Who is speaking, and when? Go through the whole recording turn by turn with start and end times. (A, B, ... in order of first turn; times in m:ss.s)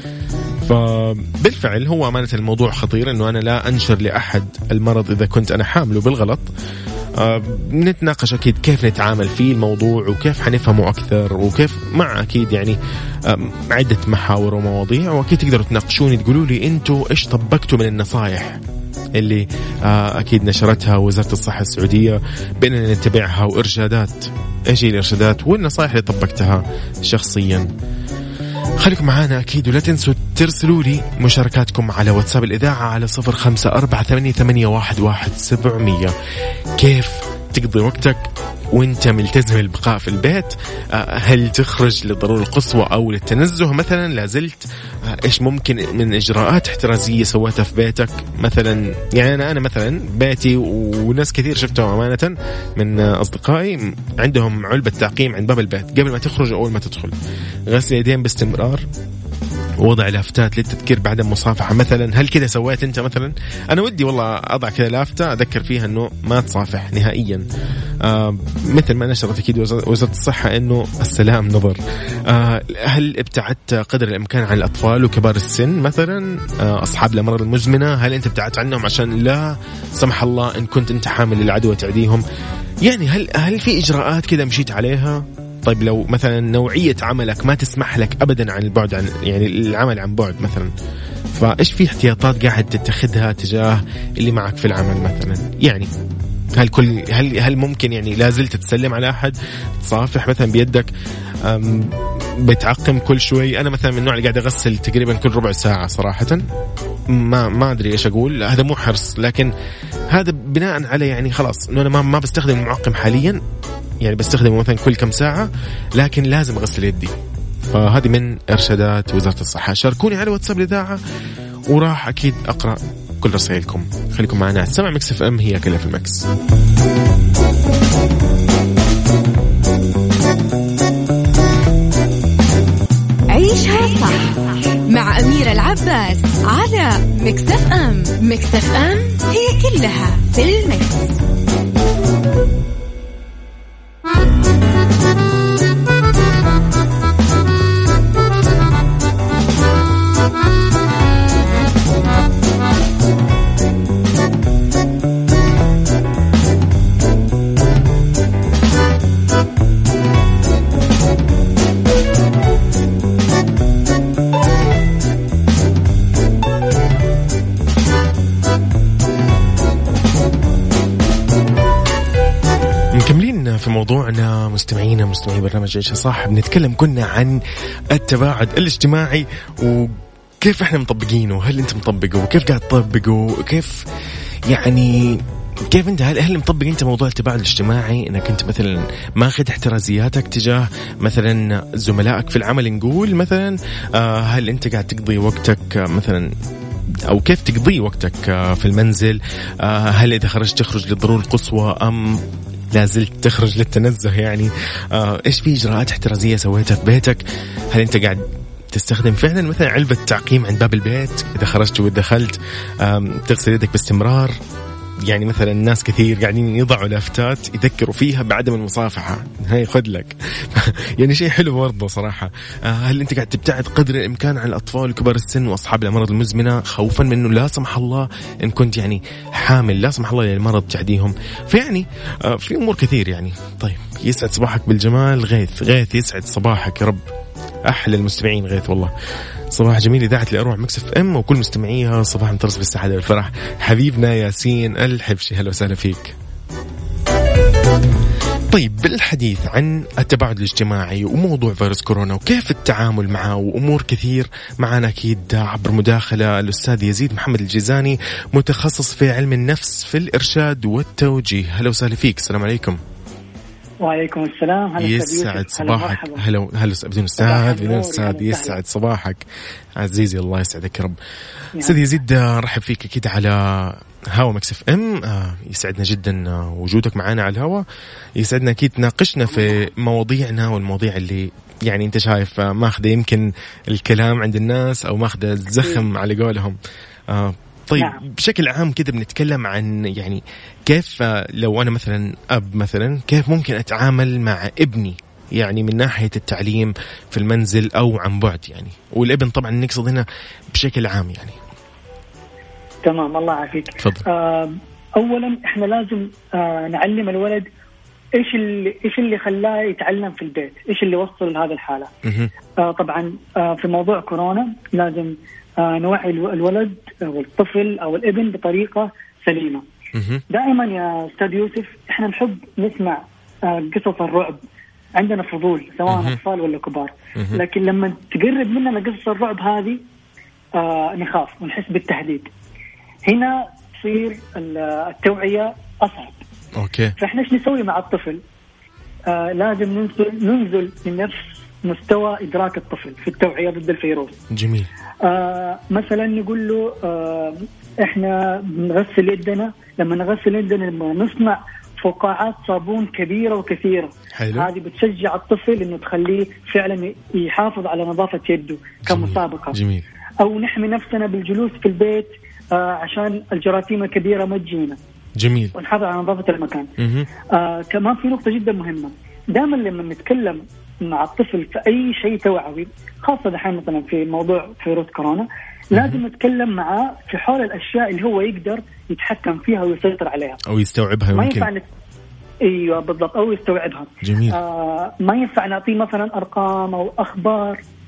0:00.6-0:06.5 A
0:07.2-0:18.6 A
0:19.2-0:27.7 A
0:28.8-0:36.1 A
0:36.8-0:57.2 A
0:57.7-0:58.8 A
0:59.8-1:07.4 A
1:08.0-1:22.2 A
1:22.8-1:30.7 A
1:31.3-1:35.9 A
1:36.5-1:40.9 A
1:41.4-1:46.4 A
1:47.1-1:49.5 A
1:50.1-1:53.4 A
1:54.0-1:57.2 A
1:57.7-2:01.0 A
2:01.7-2:06.2 A
2:13.3-2:14.3 B
2:14.9-2:21.2 B
2:52.9-2:57.4 A
2:57.9-3:03.8 A
3:04.5-3:16.3 A
3:17.0-3:22.2 A
3:22.7-3:34.3 A
3:35.0-3:57.0 A
3:57.7-3:58.9 A
3:59.5-4:06.1 A
4:08.5-4:22.8 A
4:23.8-4:26.2 C
4:24.8-4:29.2 A
4:27.2-4:28.6 C
4:29.8-4:31.0 A
4:31.6-4:37.6 A
4:38.2-4:46.6 A
4:39.3-4:39.6 C
4:47.1-5:01.4 A
4:47.8-4:48.0 C
5:02.8-5:07.5 C
5:03.8-5:04.0 A
5:08.2-5:11.9 C
5:12.0-5:12.3 A
5:12.6-5:19.6 C
5:19.9-5:20.2 A
5:20.3-5:24.4 C
5:25.0-5:29.8 C
5:25.9-5:26.2 A
5:27.2-5:27.4 A
5:30.5-5:32.3 C
5:33.1-5:36.2 C
5:36.6-5:36.9 A
5:37.0-5:38.2 C
5:39.1-5:44.2 C
5:44.3-5:44.7 A
5:45.0-5:59.6 C
5:54.2-5:54.5 A
5:58.9-5:59.9 A
6:00.2-6:04.8 C
6:05.2-6:05.5 A
6:05.6-6:06.7 C
6:06.8-6:07.1 A
6:07.3-6:20.4 C
6:15.7-6:16.0 A
6:20.5-6:21.5 A
6:21.1-6:21.6 C
6:22.4-6:27.6 C
6:24.0-6:24.4 A